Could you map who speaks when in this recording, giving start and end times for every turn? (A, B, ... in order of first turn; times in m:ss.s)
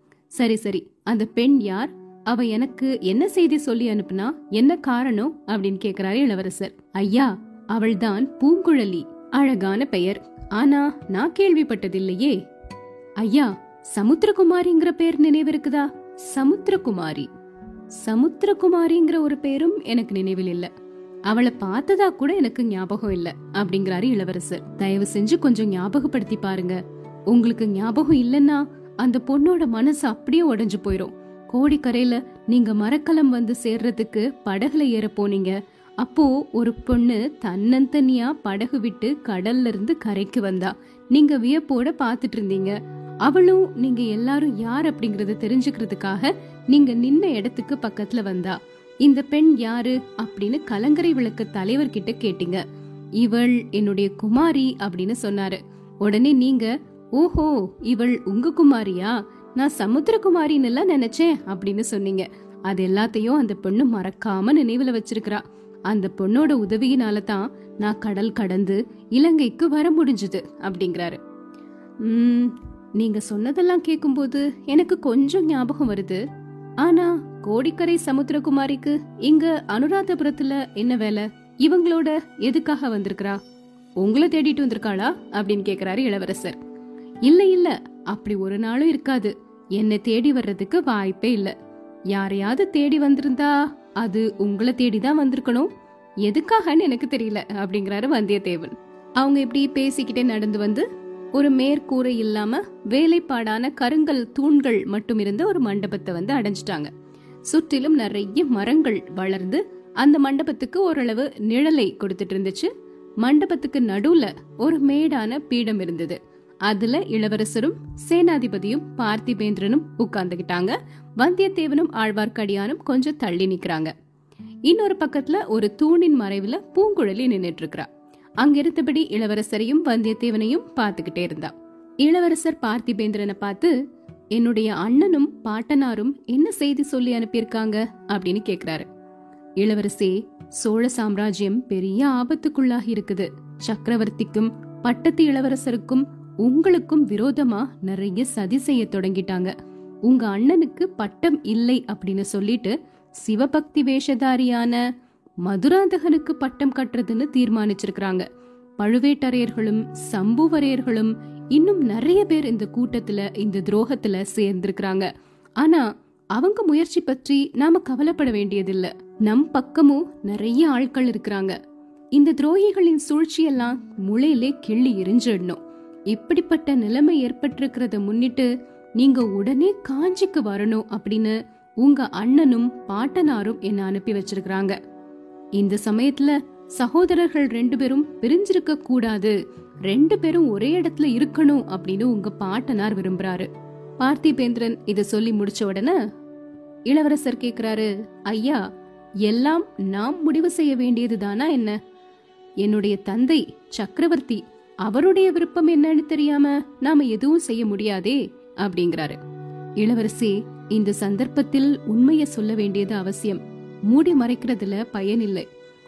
0:00.3-0:12.4 A
0:13.2-0:17.3 A
0:18.0-0:20.7 A
0:21.3-0:52.6 A
0:53.2-1:11.2 A
1:12.0-1:16.2 A
1:16.8-1:23.4 A
1:24.0-1:26.6 A
1:27.2-1:31.5 A
1:32.1-1:35.7 A
1:36.2-1:46.9 A
1:47.5-1:52.7 A
1:53.2-2:03.9 A
2:04.6-2:07.9 A
2:08.4-2:13.7 A
2:14.3-2:18.9 A
2:19.6-2:29.5 A
2:30.0-2:34.8 A
2:35.4-2:38.2 A
2:38.8-2:45.1 A
2:45.6-2:51.6 A
2:52.1-3:04.8 A
3:05.6-3:13.5 A
3:14.0-3:16.0 A
3:16.9-3:18.6 A
3:19.2-3:21.8 A
3:22.6-3:29.2 A
3:29.8-3:35.4 A